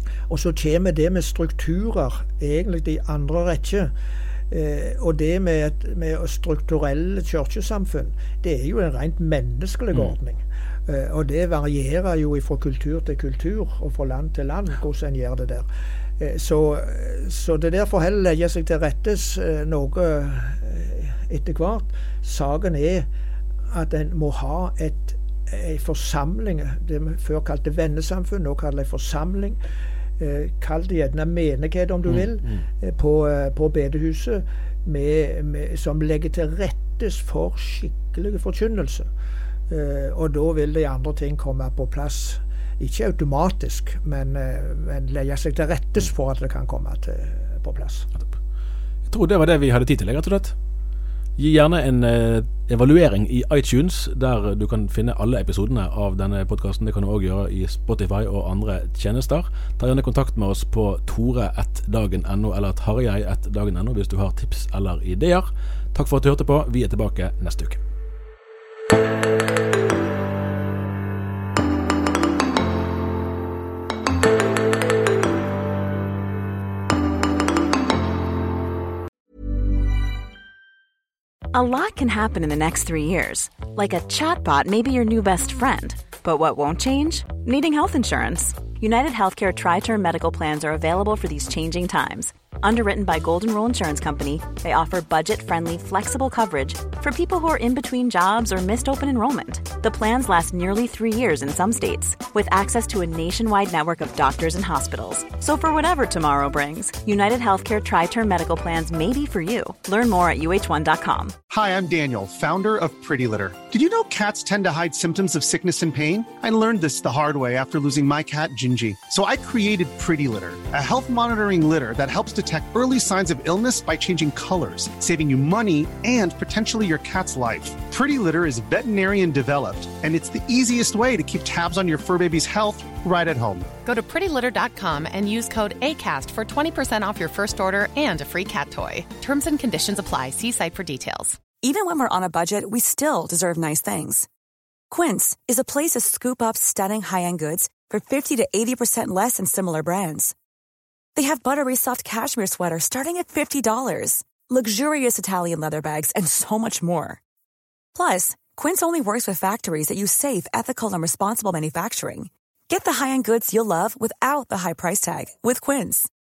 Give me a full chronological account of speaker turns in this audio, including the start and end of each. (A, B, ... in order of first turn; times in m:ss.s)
0:00.3-0:03.9 A
0:04.5-0:15.6 A
0:16.2-0:23.1 A
0:23.7-0:29.6 A
0:30.2-0:39.1 A
0:32.1-0:32.6 B
0:39.7-0:48.1 A
0:49.1-0:50.5 B
0:51.4-1:07.8 B
1:21.5-1:51.4 C
1:51.5-2:13.7 D
2:13.8-2:21.4 E
2:21.6-2:24.3 F
2:24.9-2:30.3 F
2:31.2-2:37.2 F
2:37.9-2:46.1 F